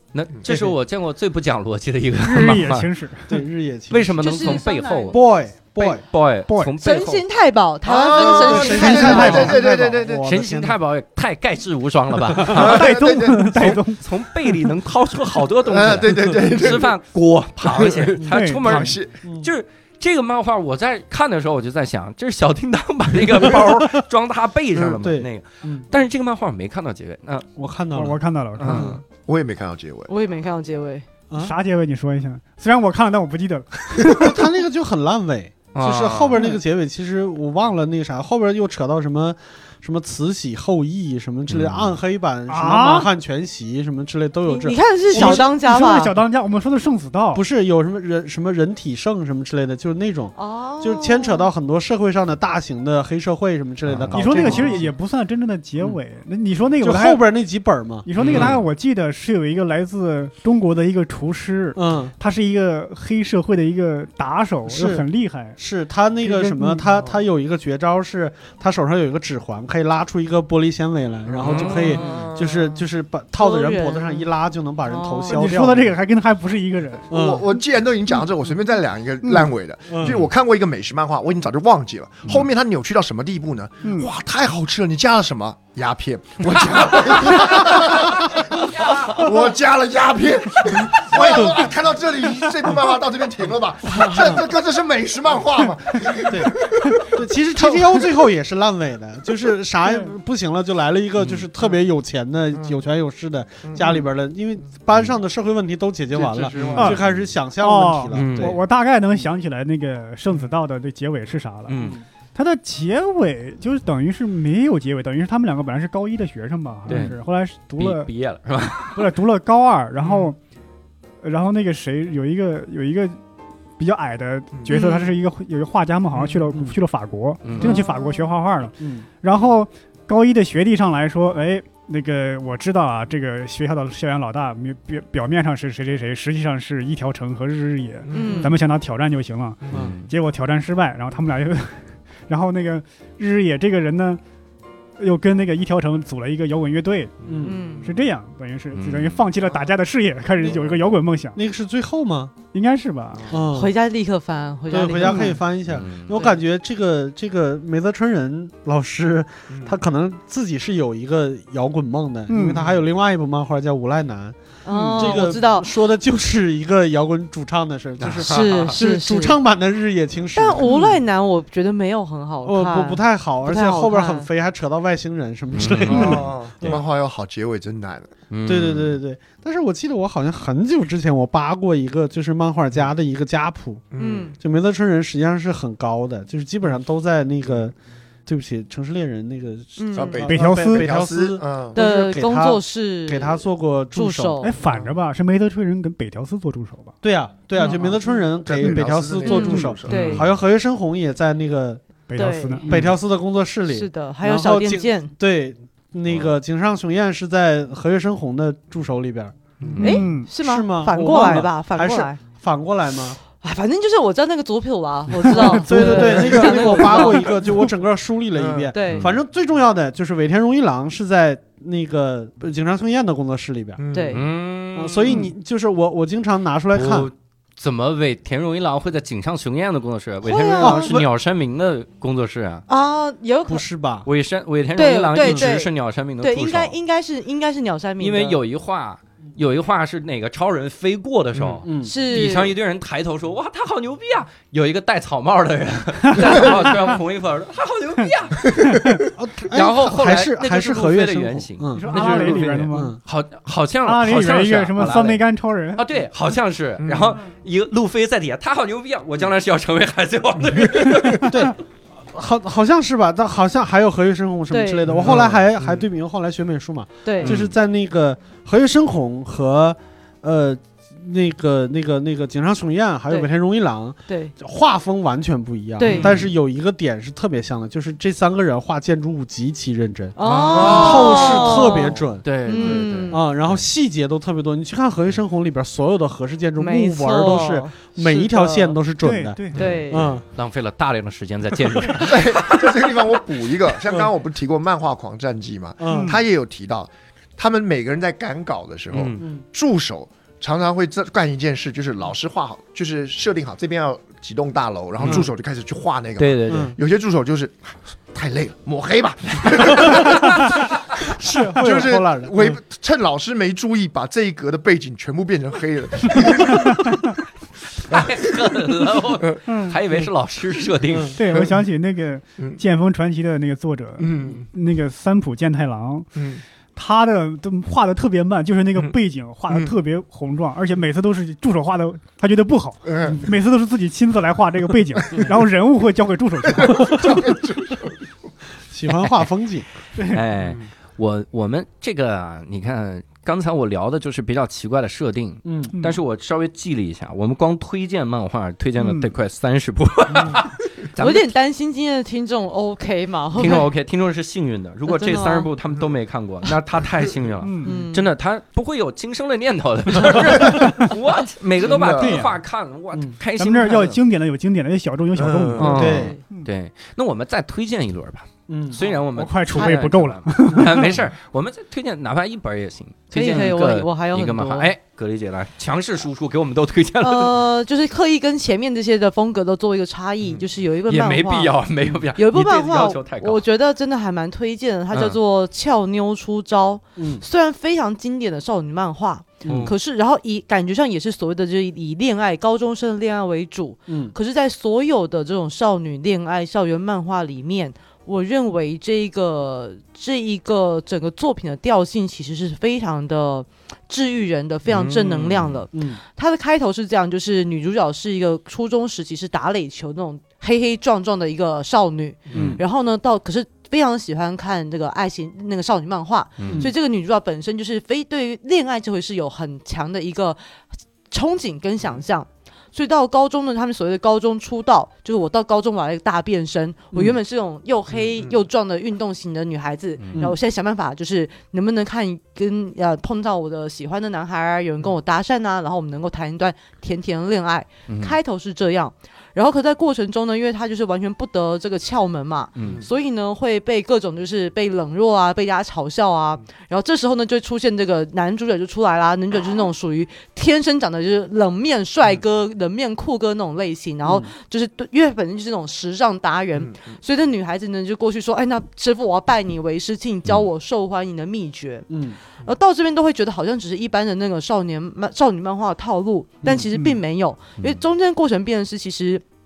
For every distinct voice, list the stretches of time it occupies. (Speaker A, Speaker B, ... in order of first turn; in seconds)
Speaker A: 0.1-2.9, 3.9-5.2, 5.8-7.2, 9.2-9.5, 10.2-27.5, 28.6-29.0, 35.7-36.3, 41.5-42.0, 53.9-54.8, 58.2-58.6, 71.4-72.3, 101.2-101.5, 106.5-107.2, 108.1-108.6, 111.7-112.0, 116.9-117.2, 117.8-119.2, 127.4-127.8, 139.7-140.1, 148.7-149.2, 155.7-156.2, 175.5-176.3, 178.3-179.0, 199.9-200.2, 206.1-206.3, 209.7-210.1, 218.8-219.2, 224.1-225.2, 226.7-232.6, 234.1-236.8, 238.0-248.6, 249.5-255.2, 255.7-261.4, 264.9-265.4, 267.2-267.5, 275.8-276.3, 280.2-283.6, 289.5-292.4, 298.9-299.2, 305.0-305.3, 306.2-306.8, 317.9-321.2, 338.9-339.2, 340.1-351.3, 353.4-364.0, 365.6-377.4, 380.9-383.4, 384.9-385.2, 389.4-389.7, 404.7-405.6, 412.3-412.6, 416.4-416.7, 430.0-430.3, 437.9-438.2, 442.6-442.8
Speaker B: 0.5-0.7, 3.3-4.6, 5.1-6.0, 8.1-10.8, 19.2-19.5, 23.4-23.9, 25.0-25.9, 27.6-29.0, 31.3-31.6, 34.1-45.5, 47.3-54.9, 56.8-58.4, 61.8-62.1, 64.7-65.0, 65.6-75.9, 77.1-77.5, 79.9-80.3, 91.1-91.6, 94.0-94.4, 96.3-108.6, 126.5-126.8, 128.8-129.1, 147.2-147.6, 151.3-152.3, 153.3-153.7, 154.7-171.0, 172.4-176.8, 178.4-183.8, 184.4-194.5, 197.0-209.3, 210.3-213.2, 215.5-223.8, 224.7-227.1, 230.6-231.1, 233.5-234.1, 235.2-235.5, 241.6-241.9, 249.1-253.0, 261.2-290.2, 295.8-296.2, 299.2-299.4, 306.5-306.7, 309.8-310.1, 311.2-312.6, 338.7-339.7, 345.4-345.7, 365.7-366.1, 368.5-368.8, 387.0-387.2, 389.4-389.7, 393.9-394.1, 405.7-406.0, 416.5-416.7, 454.0-454.3, 461.9-462.2, 466.4-466.7
Speaker C: 2.2-3.4, 6.5-6.7, 8.8-9.5, 12.6-14.6, 18.3-19.0, 27.9-29.0, 31.4-34.5, 42.5-43.1, 45.1-47.4, 54.1-57.2, 58.0-65.6, 66.2-66.9, 75.3-77.1, 83.8-84.1, 99.8-100.1, 106.7-107.0, 107.6-118.1, 118.9-120.4, 121.2-123.2, 123.8-144.2, 145.0-147.2, 147.8-151.4, 152.5-153.3, 155.0-155.4, 162.3-162.8, 190.2-190.9, 194.4-197.0, 199.3-199.7, 202.1-202.9, 209.8-210.3, 215.3-216.1, 248.7-249.0, 251.7-252.9, 253.8-255.8, 289.0-289.8, 295.9-296.2, 311.3-311.6, 319.5-319.8, 321.1-326.1, 326.7-337.3, 339.9-340.2, 345.7-346.0, 348.8-349.1, 357.4-357.8, 361.9-362.3, 363.4-366.5, 369.1-371.0
Speaker D: 4.2-5.2, 6.8-9.6, 30.1-31.1, 44.5-46.1, 50.3-51.5, 73.4-74.3, 74.8-75.5, 124.7-125.1, 127.6-128.3, 138.1-138.5, 147.4-147.9, 153.5-155.4, 156.1-156.4, 164.6-165.8, 168.2-169.4, 170.3-174.3, 184.0-184.4, 189.8-190.2, 191.7-194.5, 197.5-198.3, 199.2-200.3, 202.2-202.7, 203.7-205.1, 209.8-212.2, 213.4-217.4, 218.7-219.1, 223.9-224.2, 230.2-231.0, 232.7-233.7, 234.7-238.4, 241.8-242.5, 264.5-264.9, 267.0-267.4, 274.1-274.3, 275.8-276.2, 280.1-283.2, 286.6-288.8, 289.5-290.2, 351.0-353.7, 354.9-355.5, 357.6-358.1, 365.8-366.2, 373.1-374.7, 377.0-381.6, 382.1-420.4, 421.1-469.2
Speaker E: 7.8-10.3, 12.5-13.8, 15.6-16.9, 17.6-19.1, 29.1-30.1, 36.0-36.4, 71.3-72.8, 77.1-98.2, 102.5-102.8, 103.6-104.0, 106.1-107.0, 138.1-138.4, 147.2-147.6, 159.5-159.8, 168.0-168.6, 175.9-178.1, 183.9-184.3, 189.9-191.8, 194.6-194.9, 198.4-200.2, 209.6-209.8, 216.2-217.2, 218.3-218.7, 223.8-224.2, 248.5-249.1, 256.8-257.2, 264.9-265.8, 280.5-281.2, 292.0-317.0, 324.0-324.4, 326.1-326.4, 332.8-333.3, 336.5-338.0, 361.6-362.2, 365.1-365.9, 412.3-412.6, 427.9-428.4, 442.6-442.9, 456.6-456.9